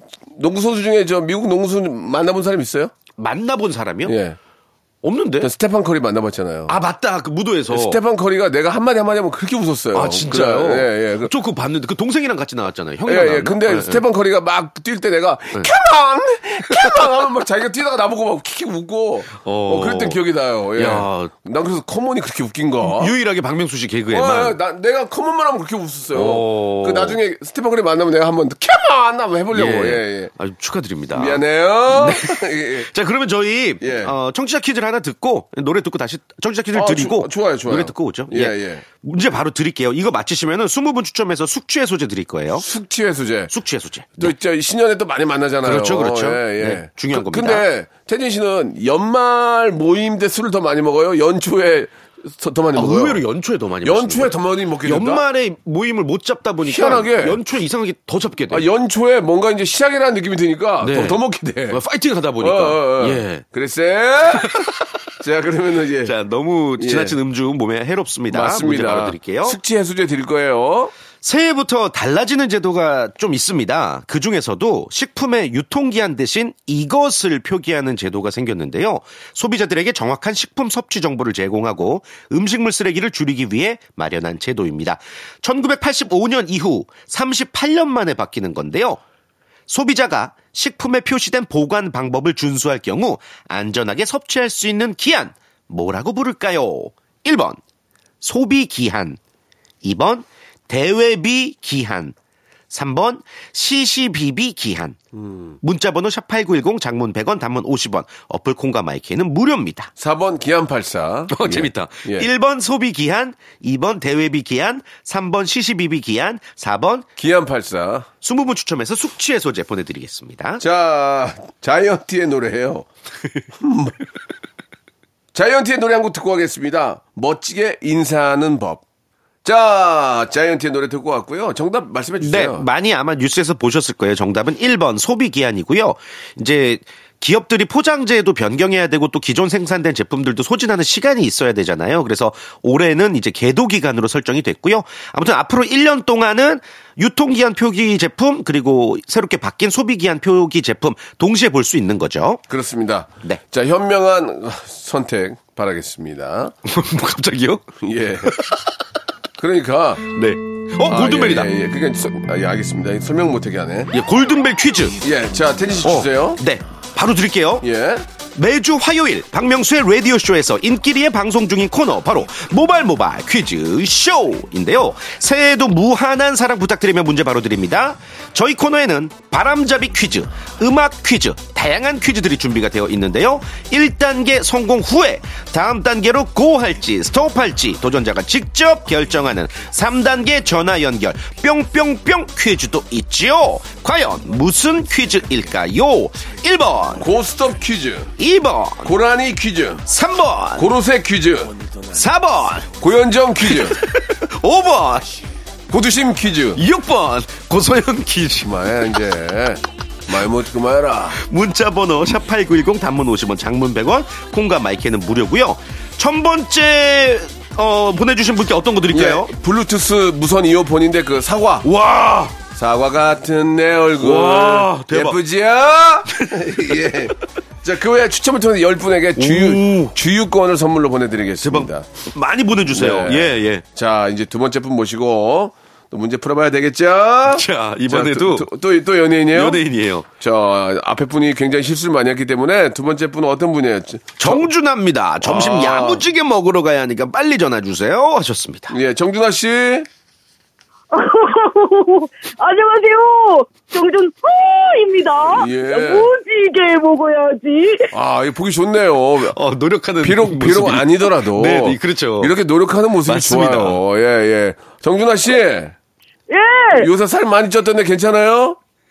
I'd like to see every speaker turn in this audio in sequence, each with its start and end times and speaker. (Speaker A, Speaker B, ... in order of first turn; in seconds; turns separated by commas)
Speaker A: 0.3-2.9, Speaker B: 3.2-4.2, Speaker A: 4.1-4.4, Speaker B: 5.0-5.5, Speaker A: 5.4-6.8, Speaker B: 6.7-8.0, Speaker A: 7.7-11.3, Speaker B: 9.9-14.0, Speaker A: 13.1-23.1, Speaker B: 19.4-20.2, Speaker B: 20.8-21.3, Speaker B: 22.8-24.6, Speaker A: 24.1-30.3, Speaker B: 26.1-27.2, Speaker B: 29.5-42.7, Speaker A: 31.1-32.9, Speaker A: 33.8-34.1, Speaker A: 36.7-38.8, Speaker A: 42.5-43.5, Speaker B: 43.5-44.3, Speaker A: 44.2-53.2, Speaker B: 45.6-47.7, Speaker B: 52.8-58.7, Speaker A: 53.8-55.2, Speaker A: 56.7-57.4, Speaker A: 58.5-61.8, Speaker B: 60.8-63.4, Speaker A: 62.4-64.6, Speaker A: 65.2-66.2, Speaker B: 66.0-69.6, Speaker A: 66.8-67.2, Speaker A: 68.3-70.9, Speaker B: 71.2-89.0, Speaker B: 89.7-97.6, Speaker B: 98.2-99.2, Speaker B: 99.8-102.2, Speaker B: 102.7-105.0, Speaker A: 105.1-105.5, Speaker B: 105.6-109.9, Speaker A: 110.0-112.3, Speaker B: 111.3-117.1, Speaker A: 117.2-118.1, Speaker B: 118.2-120.6, Speaker A: 120.6-122.9, Speaker A: 123.6-124.0, Speaker A: 125.3-128.8, Speaker A: 129.4-132.7, Speaker B: 132.2-152.4, Speaker A: 152.5-156.6, Speaker B: 156.7-157.7, Speaker A: 157.8-158.4, Speaker B: 158.2-158.6, Speaker A: 159.4-160.1, Speaker B: 160.1-161.5, Speaker A: 160.8-163.9, Speaker B: 163.9-165.0, Speaker A: 165.0-166.4, Speaker B: 165.8-167.7, Speaker A: 167.6-168.1, Speaker B: 168.4-197.1, Speaker A: 197.0-198.1, Speaker B: 198.2-198.9, Speaker A: 198.8-199.8, Speaker B: 199.9-200.7, Speaker A: 200.6-201.6, Speaker B: 201.9-202.7, Speaker A: 202.8-203.8, Speaker B: 203.4-205.1, Speaker A: 205.7-206.6, Speaker B: 206.6-208.6, Speaker A: 208.4-211.2, Speaker B: 211.2-219.3, Speaker A: 218.9-221.7, Speaker B: 221.6-222.4, Speaker A: 222.4-231.9, Speaker B: 224.0-225.2, Speaker B: 226.2-226.8, Speaker B: 229.2-229.9, Speaker B: 231.4-233.6, Speaker A: 232.7-239.6, Speaker B: 237.3-238.5, Speaker B: 239.3-240.1, Speaker A: 240.2-244.5, Speaker B: 244.2-248.8, Speaker A: 245.2-246.1, Speaker A: 248.7-249.9, Speaker C: 250.9-257.9, Speaker A: 255.3-256.1, Speaker A: 257.9-259.4, Speaker B: 259.2-262.4, Speaker A: 260.0-265.8, Speaker B: 263.1-263.8, Speaker C: 266.3-266.9, Speaker A: 266.8-268.6